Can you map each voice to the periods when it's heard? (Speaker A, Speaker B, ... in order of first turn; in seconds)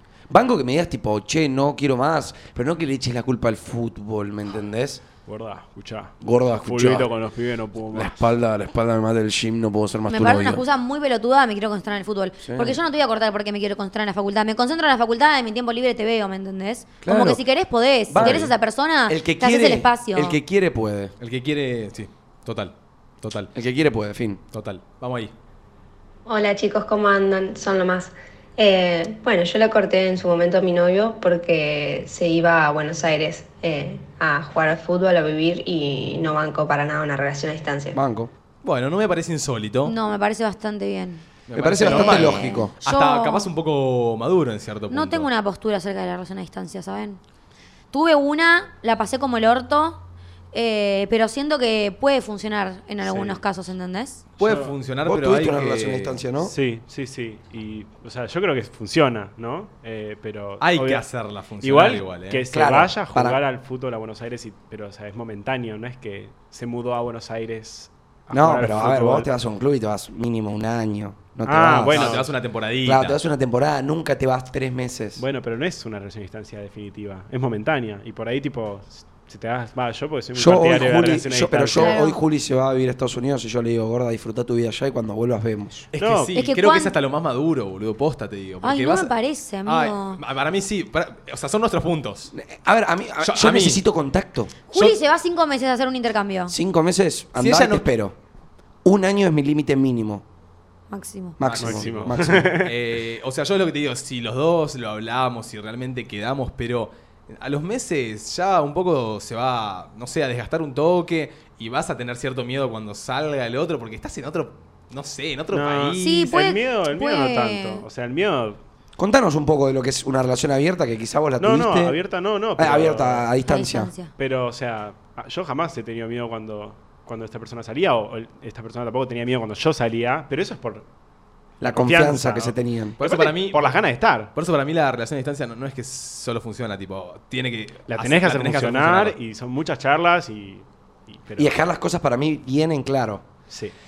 Speaker A: 0.3-5.0, 6.2-7.1, 7.9-10.6, 12.4-12.8, 17.0-17.4, 18.1-18.5, 19.1-21.1, 23.6-24.4, 37.9-38.3, 41.5-42.7, 55.0-56.5, 62.5-63.4, 68.3-72.3, 72.8-75.2, 80.3-85.9, 92.3-94.5, 96.5-98.2, 98.8-100.2, 101.4-102.5, 119.0-122.0, 122.6-123.9, 131.6-133.0, 141.4-143.2
Speaker B: 5.2-8.3, 53.0-53.4, 54.4-54.8, 56.4-61.1, 61.6-69.3, 71.5-72.3, 75.2-82.0, 86.0-86.4, 101.6-102.7, 115.5-118.6, 121.4-123.3, 124.2-130.8, 131.6-134.3, 137.9-141.6
Speaker C: 10.1-20.4, 39.9-41.2, 41.8-43.5, 44.9-47.2, 47.9-50.0, 50.5-54.2, 81.8-82.2, 86.3-86.9, 88.6-90.2, 94.7-96.5, 100.9-101.4, 116.0-117.8, 123.5-124.1
Speaker D: 18.2-18.5, 21.2-23.5, 24.5-25.3, 38.6-39.9, 41.5-45.3, 54.4-56.2, 60.6-62.4, 71.9-73.2, 85.9-89.1, 89.7-92.3, 93.2-93.8, 97.4-97.9, 101.4-116.3, 133.0-133.8, 134.3-139.2
Speaker E: 26.3-38.0